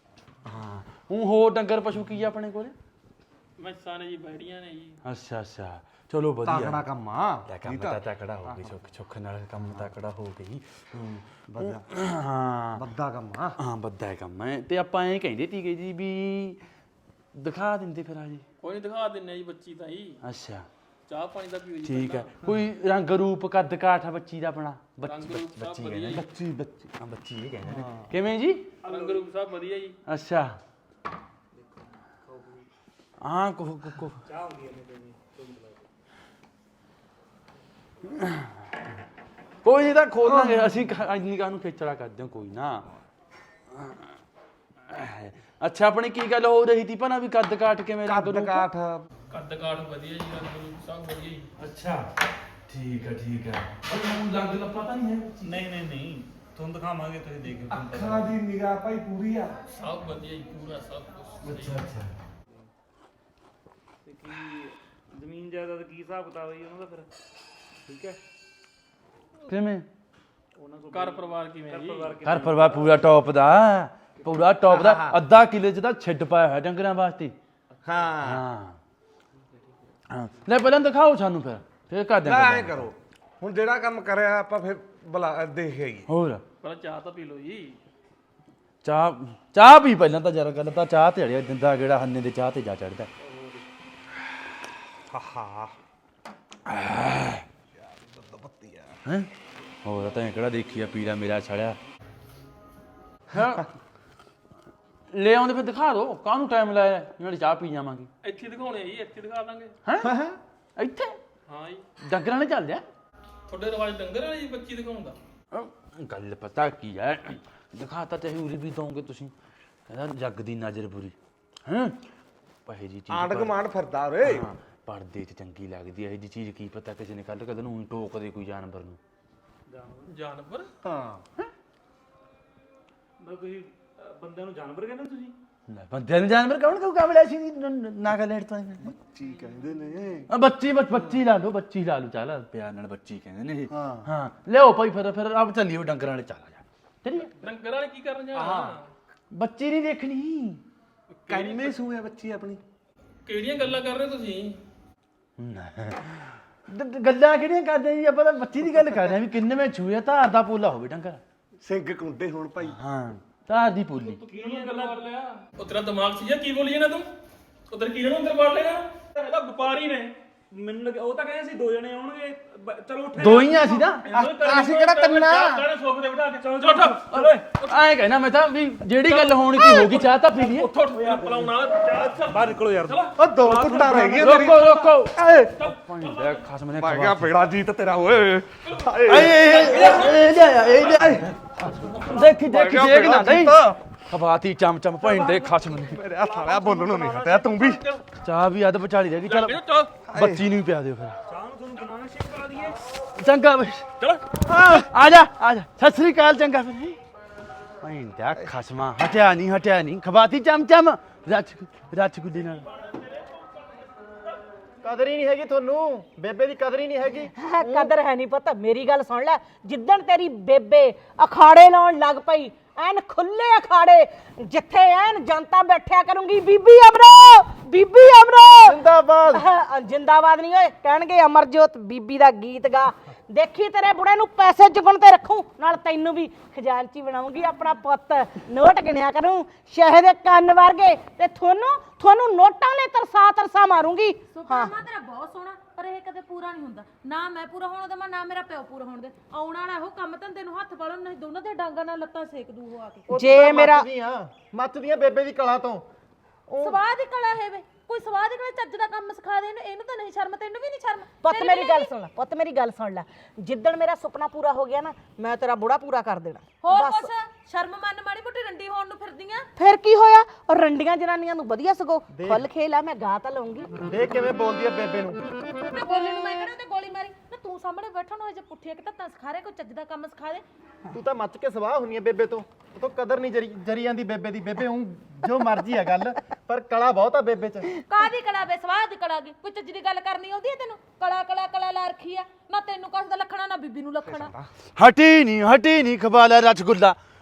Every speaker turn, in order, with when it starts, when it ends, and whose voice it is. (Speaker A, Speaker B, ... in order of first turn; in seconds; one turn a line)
Speaker A: 0.4-2.7
Speaker B: 3.6-5.0
Speaker A: 5.0-6.8
Speaker C: 6.4-8.7
Speaker A: 7.5-12.8
Speaker C: 9.6-9.9
Speaker C: 11.5-11.9
Speaker C: 12.8-13.6
Speaker A: 13.6-16.6
Speaker A: 17.3-18.4
Speaker B: 18.6-20.2
Speaker A: 20.2-20.7
Speaker B: 21.1-22.3
Speaker A: 21.8-26.3
Speaker B: 25.1-26.3
Speaker C: 26.1-26.9
Speaker A: 27.0-28.7
Speaker C: 27.7-28.1
Speaker D: 28.8-29.3
Speaker B: 28.8-29.9
Speaker A: 30.1-30.6
Speaker D: 31.5-32.6
Speaker A: 33.2-34.2
Speaker D: 34.2-35.9
Speaker A: 38.1-38.5
Speaker A: 39.6-42.9
Speaker C: 40.2-40.8
Speaker A: 43.7-44.1
Speaker A: 44.9-48.7
Speaker C: 48.1-49.0
Speaker B: 49.3-51.4
Speaker A: 51.6-52.1
Speaker A: 52.7-55.6
Speaker D: 55.4-58.3
Speaker C: 57.7-59.5
Speaker B: 59.8-61.8
Speaker A: 61.4-62.1
Speaker D: 64.0-67.1
Speaker D: 67.8-68.2
Speaker A: 69.5-69.8
Speaker D: 70.6-73.1
Speaker B: 70.9-72.2
Speaker A: 72.2-77.3
Speaker C: 74.7-75.2
Speaker D: 77.7-78.2
Speaker C: 77.8-78.4
Speaker A: 78.2-78.8
Speaker A: 80.1-82.9
Speaker C: 82.2-86.1
Speaker A: 86.1-86.4
Speaker B: 86.6-87.8
Speaker A: 88.8-93.1
Speaker D: 93.2-93.6
Speaker C: 95.1-95.7
Speaker A: 96.7-97.4
Speaker C: 97.8-99.0
Speaker A: 99.8-101.8
Speaker A: 103.3-103.7
Speaker C: 103.3-103.6
Speaker A: 105.1-108.1
Speaker B: 108.2-109.8
Speaker A: 109.8-110.1
Speaker C: 110.0-110.4
Speaker A: 110.8-111.2
Speaker B: 111.5-111.8
Speaker A: 112.0-112.8
Speaker B: 113.5-115.2
Speaker A: 115.5-119.3
Speaker A: 119.9-121.2
Speaker A: 121.7-122.0
Speaker A: 122.7-123.5
Speaker C: 123.1-124.5
Speaker A: 124.2-129.0
Speaker D: 129.7-130.1
Speaker B: 130.1-130.7
Speaker C: 130.8-131.2
Speaker D: 133.2-135.3
Speaker A: 135.7-138.9
Speaker C: 138.8-140.3
Speaker A: 140.3-147.3
Speaker C: 143.7-144.1
Speaker B: 147.4-148.9
Speaker C: 148.3-148.8
Speaker A: 149.3-150.6
Speaker B: 151.2-151.8
Speaker C: 151.3-152.6
Speaker B: 153.2-154.6
Speaker A: 155.4-161.2
Speaker C: 161.6-162.8
Speaker A: 162.6-164.2
Speaker D: 164.2-165.4
Speaker B: 164.3-165.0
Speaker B: 165.6-167.1
Speaker B: 167.7-170.2
Speaker D: 170.5-174.2
Speaker A: 173.2-174.0
Speaker B: 174.1-177.8
Speaker C: 174.1-175.7
Speaker D: 176.3-177.5
Speaker A: 177.1-180.7
Speaker B: 179.1-184.2
Speaker D: 180.9-181.5
Speaker D: 182.1-184.5
Speaker C: 183.2-185.7
Speaker A: 184.2-187.4
Speaker C: 186.8-190.2
Speaker A: 189.1-191.3
Speaker B: 189.4-190.2
Speaker C: 190.8-191.3
Speaker A: 192.1-196.0
Speaker C: 192.4-193.8
Speaker D: 195.2-195.6
Speaker C: 195.8-197.8
Speaker B: 196.2-198.1
Speaker A: 198.2-199.6
Speaker B: 199.2-200.0
Speaker C: 200.1-200.4
Speaker A: 200.1-201.2
Speaker D: 201.3-202.8
Speaker A: 203.2-203.9
Speaker C: 204.5-204.9
Speaker A: 204.6-207.0
Speaker A: 207.8-212.6
Speaker E: 214.8-217.9
Speaker F: 217.3-228.8
Speaker E: 228.6-229.4
Speaker F: 229.3-244.8
Speaker G: 244.3-253.1
Speaker E: 253.1-255.8
Speaker F: 253.1-253.9
Speaker E: 256.5-256.8
Speaker G: 256.6-261.9
Speaker F: 261.2-267.1
Speaker G: 266.6-269.5
Speaker F: 269.6-273.8
Speaker E: 272.1-272.4
Speaker E: 273.8-275.3
Speaker G: 275.7-280.4
Speaker E: 280.9-287.8
Speaker G: 287.9-294.3
Speaker C: 294.1-294.5
Speaker A: 294.8-296.9